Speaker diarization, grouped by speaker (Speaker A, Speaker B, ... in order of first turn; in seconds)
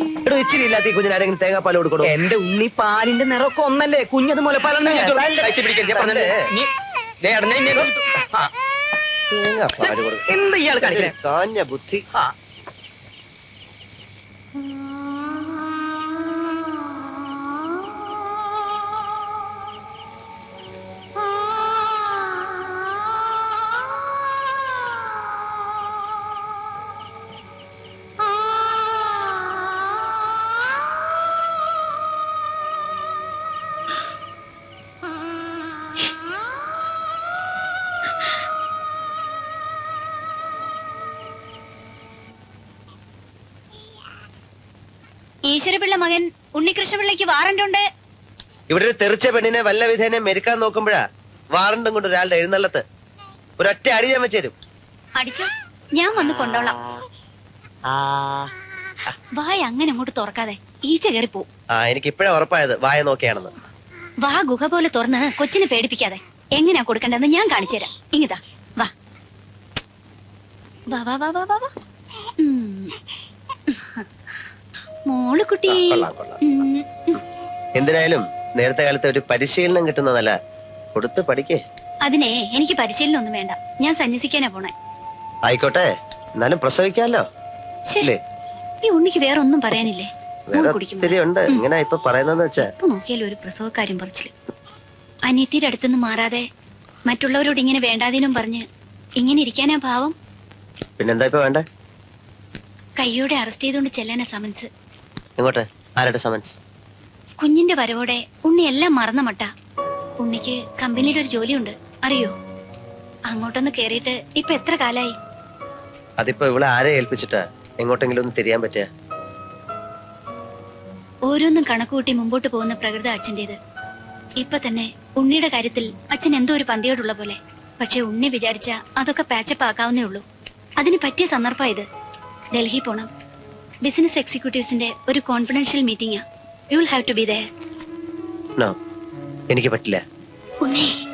Speaker A: 0.2-2.1, 4.8-6.3, 9.3-12.0, 48.7-52.8, 53.6-54.5, 61.7-63.5, 75.7-76.4, 77.7-80.3, 80.9-81.6, 85.4-87.2, 90.5-92.6, 101.0-101.6, 105.4-106.6, 116.2-118.9, 139.5-140.0
Speaker B: 2.3-5.1, 5.7-6.2, 7.2-7.6
Speaker C: 45.5-47.8, 55.2-56.8, 59.4-61.5, 64.2-68.9, 70.9-71.7, 72.4-72.9, 73.7-74.0, 75.1-77.2, 82.0-84.7, 88.8-91.6, 92.6-94.3, 95.2-96.4, 97.1-98.6, 99.2-100.1, 103.0-104.7, 107.4-109.5, 110.2-112.3, 113.3-115.2, 121.3-123.5, 124.4-130.2, 130.8-131.8, 132.5-133.1, 133.8-137.4, 140.6-140.9